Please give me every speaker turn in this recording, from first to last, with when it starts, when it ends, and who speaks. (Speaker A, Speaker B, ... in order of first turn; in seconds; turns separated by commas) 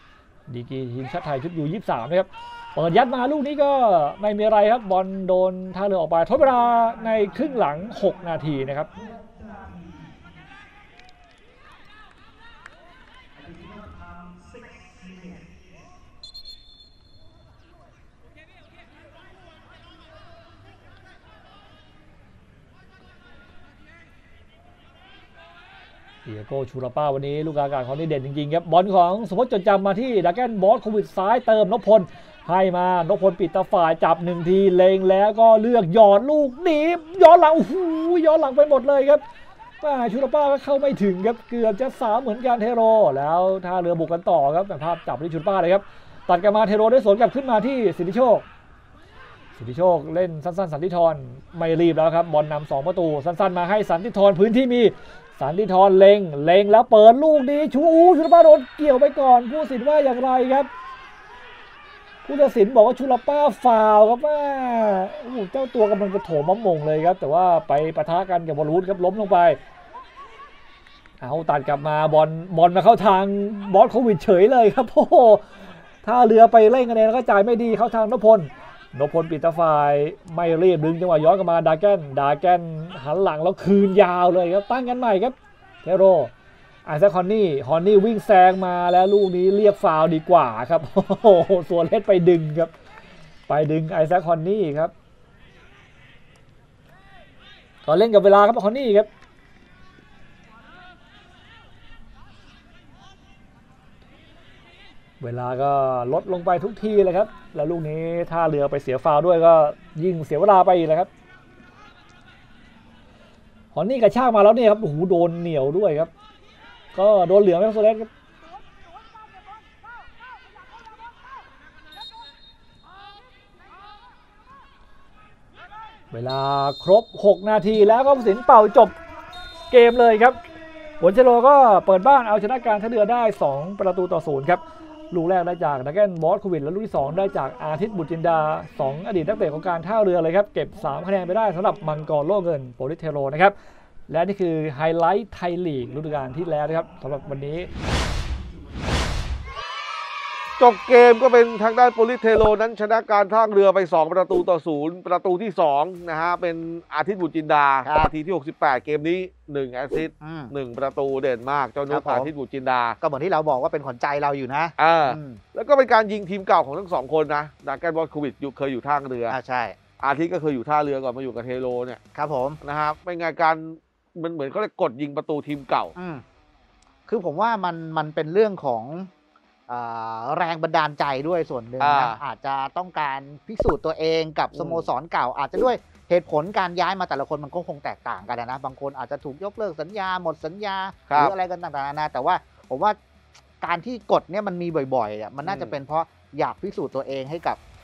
Speaker A: 0.5-8.9, Speaker A: 26.2-39.2, Speaker A: 39.8-48.5, Speaker A: 49.5-60.7, Speaker A: 62.2-69.6, Speaker A: 71.2-75.5, Speaker A: 76.0-86.3, Speaker A: 86.8-92.7, Speaker A: 93.5-94.9, Speaker A: 97.8-99.1, Speaker A: 105.2-111.1, Speaker A: 113.7-116.1, Speaker A: 116.9-118.1, Speaker A: 126.1-128.9, Speaker A: 129.7-130.4, Speaker A: 131.0-143.5, Speaker A: 144.1-147.7, Speaker B: 150.6-163.0, Speaker C: 157.8-158.1, Speaker C: 160.2-160.5, Speaker C: 161.9-162.3, Speaker C: 163.0-165.4, Speaker B: 164.8-169.3, Speaker C: 169.3-169.8, Speaker B: 170.0-172.0, Speaker C: 172.1-172.6, Speaker B: 172.6-175.9, Speaker C: 175.9-176.2, Speaker C: 177.1-179.1, Speaker C: 179.7-193.0, Speaker B: 181.8-182.2, Speaker B: 184.5-184.9, Speaker B: 191.1-191.3, Speaker C: 193.6-197.6, Speaker B: 195.4-195.8